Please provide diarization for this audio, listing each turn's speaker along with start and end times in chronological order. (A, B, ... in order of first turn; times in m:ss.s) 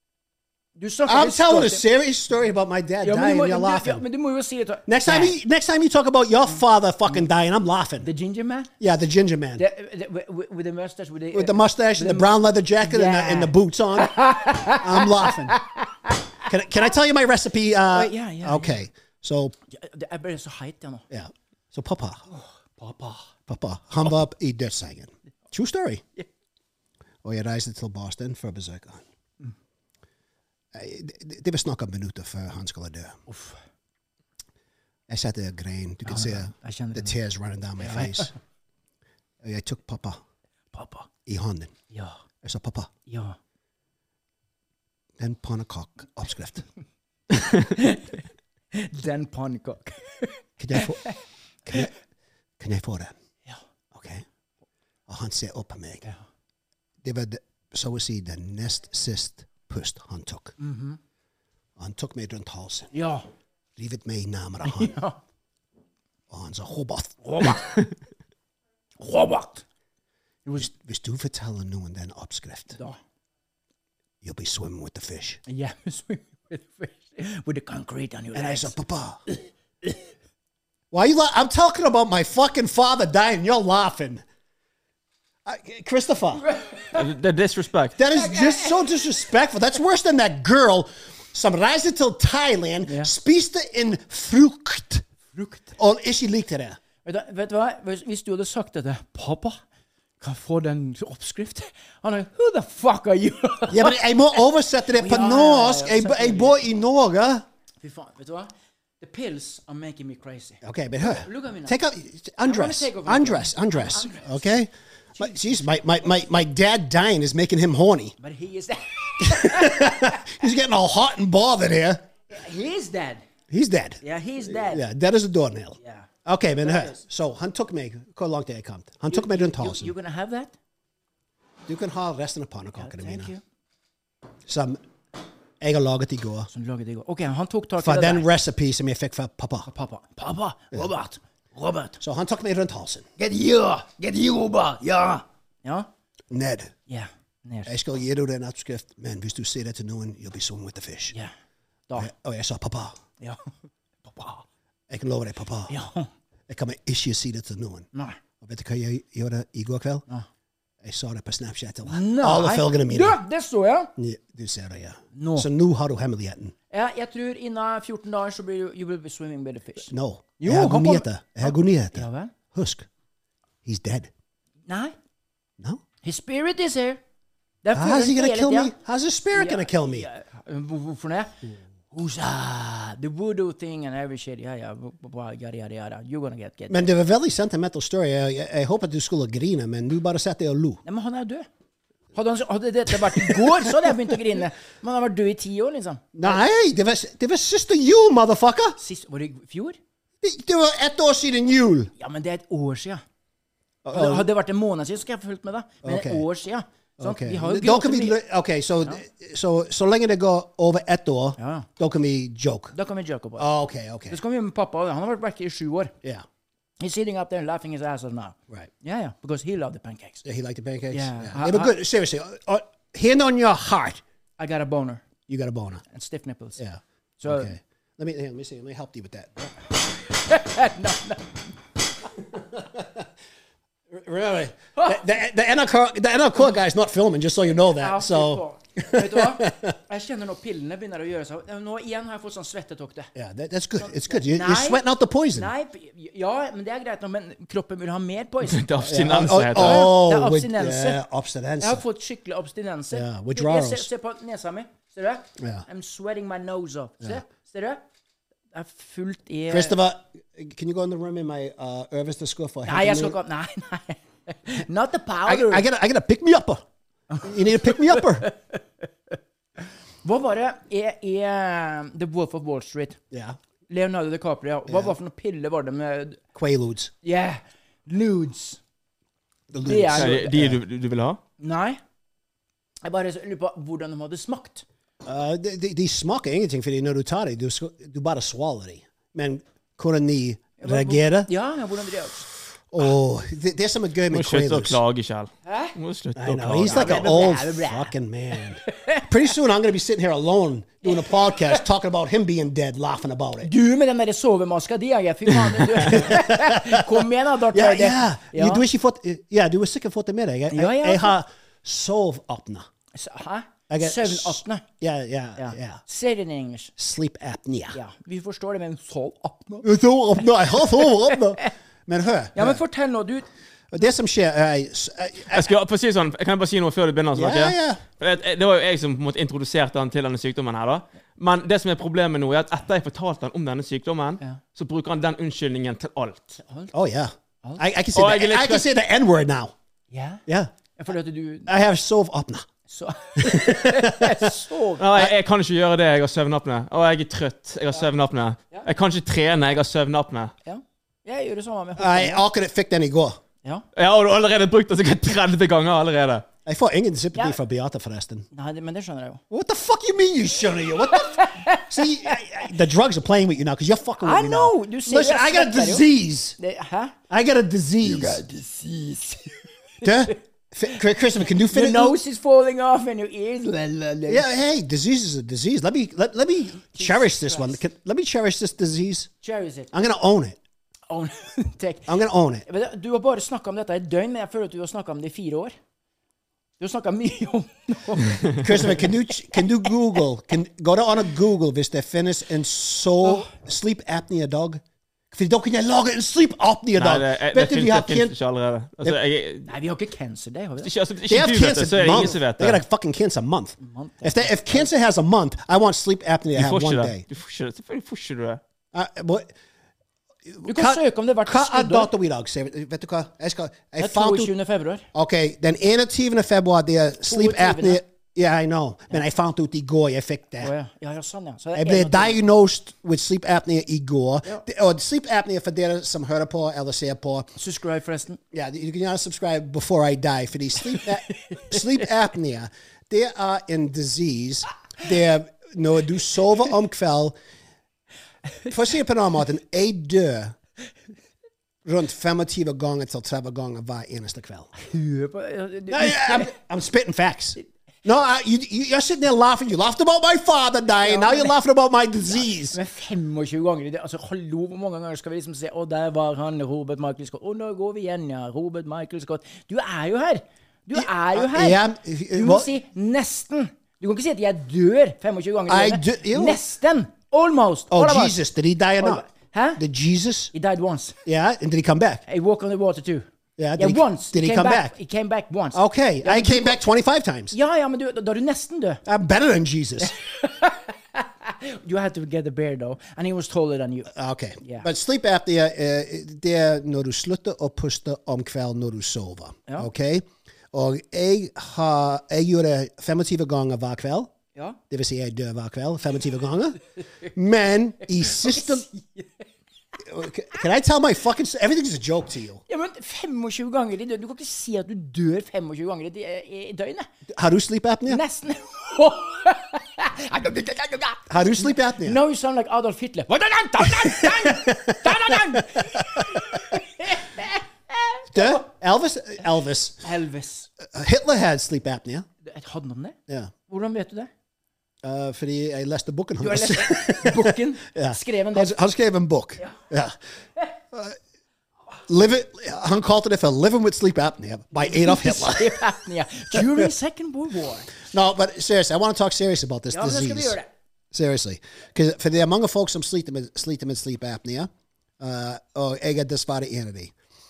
0:00.8-0:01.8 A
0:01.0-0:04.0 B
0:03.0-0:05.4 A
0:04.9-0:08.1 B
0:08.0-0:08.7 A
0:08.8-0:09.6 B
0:09.6-0:16.3 A
0:11.3-0:15.6 B
0:16.4-0:19.5 B
0:17.9-0:18.8 A
0:19.7-0:21.0 A
0:21.1-0:22.2 B
0:22.3-0:23.2 A
0:22.8-0:26.0 B
0:27.2-0:29.0 B
0:30.7-0:33.2 B
0:33.3-0:33.6 A
0:35.1-0:38.3 B
0:36.0-0:37.1 A
0:37.8-0:38.3 A
0:39.4-0:40.2 B
0:40.7-0:41.1 A
0:41.2-0:41.7 B
0:41.9-0:42.2 A
0:42.4-0:42.9 B
0:43.1-0:43.4 A
0:45.2-0:46.6 B
0:47.6-0:48.2 A
0:48.7-0:51.2 A
0:50.6-0:51.1 B
0:51.6-0:51.9 B
0:52.6-0:53.1 B
0:53.9-0:54.2 B
0:55.1-0:56.1 B
0:57.0-1:00.6 B
1:00.6-1:01.0 A
1:01.8-1:02.9 B
1:02.9-1:03.2 A
1:03.8-1:05.0 B
1:04.6-1:05.2 A
1:06.3-1:07.2 B
1:07.2-1:07.8 A
1:09.0-1:09.6 A
1:10.4-1:10.7 A
1:10.6-1:12.8 B
1:14.2-1:15.4 B
1:15.5-1:18.7 A
1:18.3-1:19.2 B
1:20.9-1:24.2 B
1:25.4-1:26.4 B
1:26.4-1:27.0 A
1:26.9-1:28.0 C
1:28.0-1:35.0 B
1:28.1-1:28.7 A
1:32.8-1:33.1 A
1:35.3-1:35.8 A
1:35.8-1:36.8 B
1:37.0-1:39.6 A
1:40.2-1:44.0 A
1:43.7-1:47.4 B
1:44.9-1:46.6 A
1:47.8-1:51.8 A
1:50.6-1:58.1 B
1:52.4-1:54.4 A
1:55.2-1:55.5 A
1:58.2-2:00.3 A
1:59.2-2:02.0 B
2:02.3-2:03.2 A
2:03.5-2:09.9 B
2:04.0-2:04.8 A
2:05.8-2:06.1 A
2:06.6-2:07.0 A
2:09.1-2:10.5 A
2:11.7-2:13.3 B
2:12.8-2:13.4 A
2:14.5-2:14.8 B
2:15.6-2:16.5 B
2:16.5-2:18.3 A
2:17.8-2:19.7 B
2:19.7-2:22.0 A
2:22.0-2:23.1 B
2:23.2-2:25.9 A
2:26.3-2:26.7 B
2:26.9-2:27.7 A
2:27.6-2:31.1 B
2:32.0-2:33.0 B
2:33.2-2:33.5 A
2:34.1-2:34.4 A
2:34.9-2:35.7 B
2:35.7-2:36.1 A
2:36.5-2:37.9 B
2:37.9-2:38.2 A
2:38.4-2:40.0 B
2:40.8-2:43.2 B
2:41.8-2:43.9 A
2:44.0-2:46.5 B
2:45.1-2:45.5 A
2:46.7-2:52.3 A
2:49.9-2:52.9 B
2:53.6-2:54.1 B
2:54.7-2:54.9 A
2:56.0-2:57.0 A
2:57.6-2:58.7 A
2:57.7-3:00.1 B
2:59.3-3:06.9 A
3:06.7-3:10.8 B
3:10.8-3:11.5 A
3:12.1-3:16.4 A
3:13.1-3:13.7 B
3:16.1-3:18.8 B
3:18.8-3:19.8 A
3:20.2-3:21.9 B
3:22.0-3:23.0 A
3:23.8-3:24.3 B
3:23.9-3:28.2 A
3:25.8-3:26.2 B
3:27.0-3:32.7 B
3:31.4-3:31.7 A
3:32.7-3:33.5 A
3:33.4-3:34.2 B
3:34.1-3:35.9 A
3:36.8-3:40.2 A
3:40.2-3:44.0 B
3:40.9-3:41.7 A
3:44.4-3:45.0 A
3:45.3-3:45.8 B
3:45.9-3:46.6 A
3:46.6-3:49.4 B
3:47.2-3:47.5 A
3:50.1-3:51.4 A
3:52.3-3:53.1 B
3:53.9-3:59.8 B
3:54.8-3:55.0 A
3:57.8-4:03.1 A
4:03.1-4:05.5 B
4:03.8-4:08.6 A
4:08.4-4:09.8 C
4:08.8-4:11.8 B
4:09.5-4:11.0 A
4:11.6-4:17.8 A
4:12.9-4:13.9 B
4:15.4-4:15.6 B
4:18.5-4:19.8 A
4:19.5-4:23.2 B
4:22.6-4:25.6 A
4:25.2-4:26.6 B
4:27.1-4:28.6 A
4:27.2-4:28.3 B
4:30.0-4:33.0 A
4:33.1-4:33.4 B
4:33.7-4:36.2 A
4:34.7-4:34.9 B
4:36.3-4:36.9 B
4:37.0-4:38.6 A
4:39.5-4:40.6 B
4:39.6-4:40.4 A
4:39.9-4:41.2 C
4:41.4-4:41.8 A
4:42.8-4:44.6 A
4:45.0-4:51.3 B
4:50.6-4:52.2 A
4:52.7-4:54.8 B
4:54.1-4:57.0 C
4:55.4-4:55.7 A
4:56.2-5:03.5 B
4:56.6-4:57.9 A
4:58.7-4:59.0 A
5:00.8-5:01.6 A
5:03.4-5:08.6 A
5:05.8-5:12.7 B
5:10.5-5:11.2 A
5:12.9-5:14.6 A
5:13.7-5:15.8 B
5:15.4-5:16.7 A
5:16.8-5:17.8 B
5:17.7-5:19.7 A
5:19.6-5:22.6 B
5:20.2-5:21.5 A
5:22.3-5:23.2 A
5:23.7-5:25.5 B
5:25.3-5:36.4 C
5:27.1-5:27.8 B
5:36.4-5:36.7 A
5:36.7-5:39.5 B
5:37.9-5:38.6 C
5:39.9-5:40.2 A
5:40.8-5:41.5 A
5:41.5-5:42.5 B
5:42.7-5:44.8 A
5:43.2-5:44.3 B
5:44.8-5:50.3 C
5:50.4-5:52.2 A
5:51.8-5:53.2 B
5:53.8-5:56.2 C
5:56.4-5:58.3 B
5:58.3-5:59.2 A
5:59.3-6:06.4 B
6:01.0-6:02.2 A
6:04.0-6:05.8 A
6:06.4-6:07.0 A
6:07.1-6:08.2 B
6:07.8-6:10.1 A
6:09.8-6:12.0 B
6:11.3-6:14.2 A
6:14.1-6:19.1 B
6:16.7-6:17.6 A
6:19.2-6:19.7 A
6:19.7-6:20.4 B
6:20.9-6:21.9 A
6:21.9-6:22.4 B
6:22.4-6:25.5 A
6:26.6-6:29.4 A
6:28.4-6:38.1 B
6:33.0-6:33.3 A
6:36.8-6:39.5 C
6:39.4-6:40.7 A
6:40.6-6:42.6 C
6:41.1-6:47.0 B
6:43.6-6:44.6 A
6:46.4-6:48.4 C
6:48.7-6:49.3 B
6:50.3-6:54.3 B
6:50.4-6:51.9 A
6:53.8-6:54.8 A
6:54.9-7:00.5 B
6:57.0-6:57.8 A
7:00.4-7:02.2 A
7:01.5-7:07.3 B
7:07.4-7:08.2 A
7:08.3-7:17.2 B
7:10.7-7:11.6 A
7:18.5-7:20.4 B
7:21.6-7:24.5 B
7:24.6-7:26.3 A
7:25.7-7:32.6 B
7:30.8-7:31.3 A
7:32.2-7:41.6 A
7:40.7-7:42.5 B
7:42.1-7:48.2 A
7:45.5-7:46.4 B
7:47.7-7:49.0 B
7:48.8-7:49.6 A
7:49.6-7:50.3 B
7:50.3-7:51.0 A
7:51.0-7:52.0 B
7:52.1-7:53.0 A
7:53.4-7:54.7 B
7:53.6-7:56.6 A
7:55.5-7:57.3 B
7:57.3-7:58.8 A
7:58.8-7:59.9 B
7:59.8-8:03.9 A
8:03.9-8:14.1 B
8:04.4-8:04.7 A
8:14.7-8:18.6 B
8:18.0-8:19.2 A
8:19.8-8:22.4 B
8:22.5-8:26.9 A
8:27.1-8:28.0 B
8:27.9-8:38.4 A
8:31.1-8:32.0 B
8:33.6-8:36.4 B
8:38.1-8:39.8 B
8:39.8-8:40.5 A
8:40.6-8:42.0 B
8:42.2-8:43.0 A
8:43.5-8:44.1 A
8:44.8-8:50.0 B
8:46.2-8:48.6 A
8:50.7-8:51.0 B
8:51.9-8:55.7 B
8:54.6-8:57.7 A
8:56.3-8:56.7 B
8:57.8-9:00.4 B
8:59.7-9:00.5 A
9:00.9-9:06.9 B